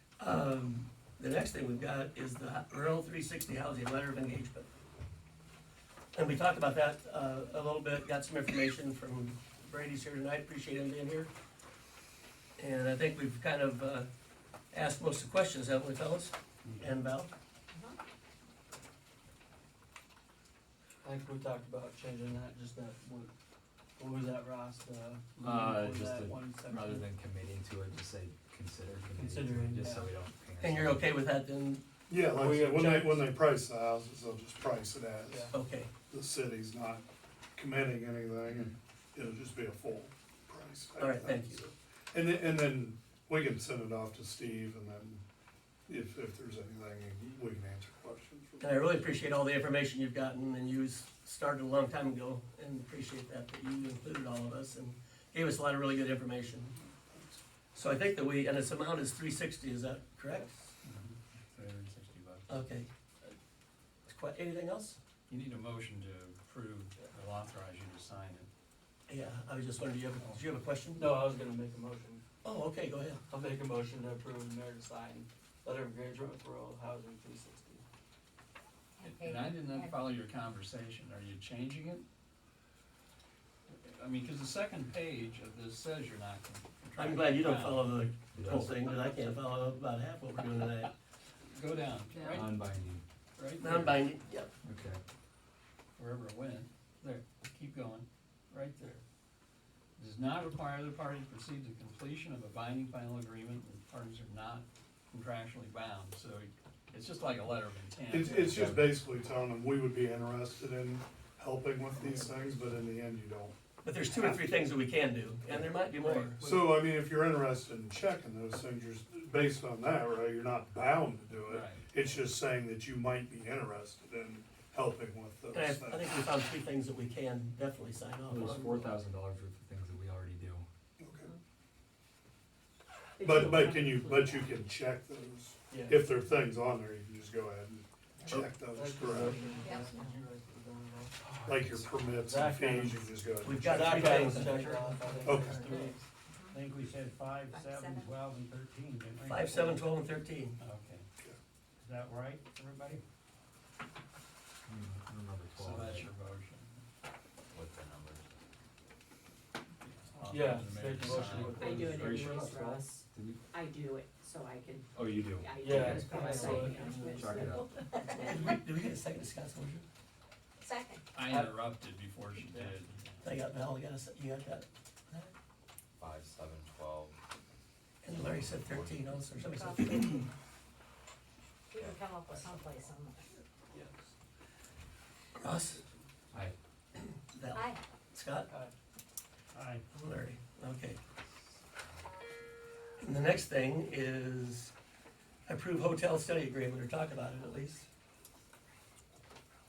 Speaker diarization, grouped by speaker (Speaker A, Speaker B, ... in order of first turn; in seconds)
Speaker A: 0.2-4.7, 6.1-11.3, 12.6-14.1, 14.7-17.3, 30.6-31.8, 32.7-33.3, 35.5-35.9, 41.0-41.6, 48.6-56.8, 57.8-60.5, 62.5-62.9, 64.1-65.0, 69.1-71.1, 72.4-73.2, 87.0-90.9, 93.6-94.5, 113.8-116.4, 125.5-128.9, 143.4-144.7, 149.2-150.6, 168.1-169.9, 173.2-175.3, 178.0-180.3, 185.4-185.8, 187.3-188.5, 189.9-191.0, 193.0-194.7, 195.5-197.9
Speaker B: 21.0-23.3, 24.0-27.1, 29.1-30.1, 32.4-32.8, 35.3-35.5, 71.0-72.2, 73.3-77.8, 135.7-136.0, 138.7-141.2, 142.2-143.1, 143.7-146.1, 160.3-162.2, 165.6-167.5, 171.3-171.6, 172.5-172.7, 183.7-184.1, 188.5-188.7
Speaker C: 25.4-31.1, 88.3-88.8, 92.2-93.0, 94.6-95.0, 108.5-108.9, 128.3-130.7, 141.3-142.2, 154.7-156.1, 157.5-158.3, 161.2-163.4, 164.9-166.2, 167.1-167.8, 176.0-177.2, 178.2-179.2, 181.7-182.7
Speaker D: 32.1-35.5, 36.1-45.2, 45.9-49.0, 108.1-113.6, 116.4-126.1, 131.0-131.3, 133.2-139.4, 141.4-144.2, 145.2-145.7
Speaker E: 60.8-62.7, 65.3-68.5, 79.0-82.1, 83.8-88.0, 91.5-92.6, 93.4-94.1, 96.0-99.0, 100.0-108.7, 115.8-116.7, 121.4-122.1, 150.6-151.1, 155.6-156.8, 159.8-161.9, 171.1-173.3
Speaker F: 79.3-79.8, 133.2-134.6, 139.0-140.2, 143.8-146.6, 147.5-148.1, 161.1-168.6, 179.5-179.9, 181.7-183.2
Speaker G: 146.5-149.8, 151.8-153.0, 189.5-189.9